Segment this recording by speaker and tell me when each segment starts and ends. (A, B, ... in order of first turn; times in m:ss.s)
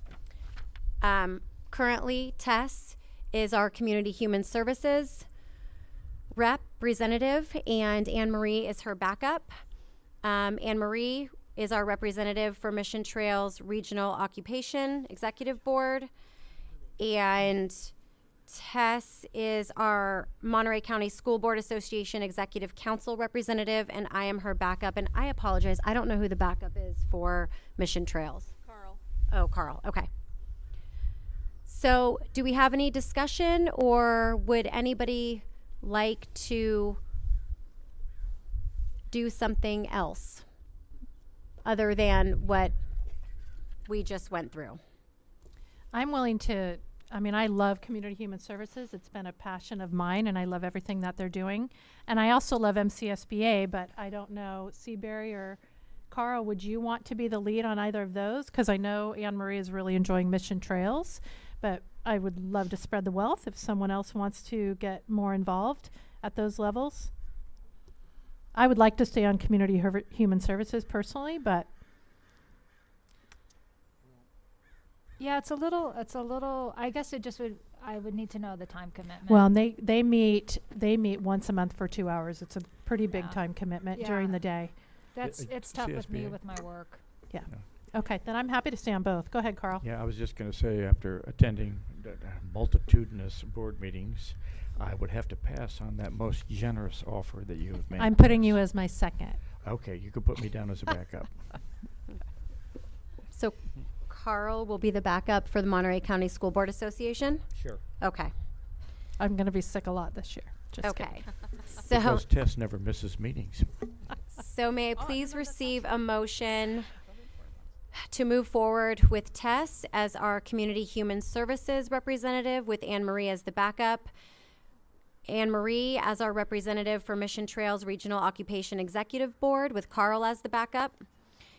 0:01.0-0:05.3 A
0:06.3-0:09.5 A
0:10.2-0:16.1 A
0:17.0-0:17.9 A
0:18.5-0:28.5 A
0:28.6-0:29.0 B
0:29.3-0:30.1 A
0:31.7-0:37.0 A
0:39.1-0:40.4 A
0:41.6-0:42.8 A
0:43.8-0:44.8 A
0:45.9-1:07.1 C
1:08.5-1:11.7 C
1:15.2-1:19.5 D
1:19.3-1:25.0 C
1:23.1-1:27.3 D
1:25.2-1:26.4 E
1:27.3-1:29.8 C
1:29.8-1:38.6 E
1:38.0-1:39.4 C
1:39.6-1:41.4 E
1:43.3-1:47.5 A
1:47.5-1:47.8 E
1:48.0-1:48.3 A
1:49.2-1:51.4 C
1:50.8-1:52.2 A
1:51.9-1:53.8 E
1:54.3-1:56.9 A
1:55.0-1:56.2 B
1:56.9-1:57.7 B
1:58.0-2:04.1 A
2:05.3-2:11.0 A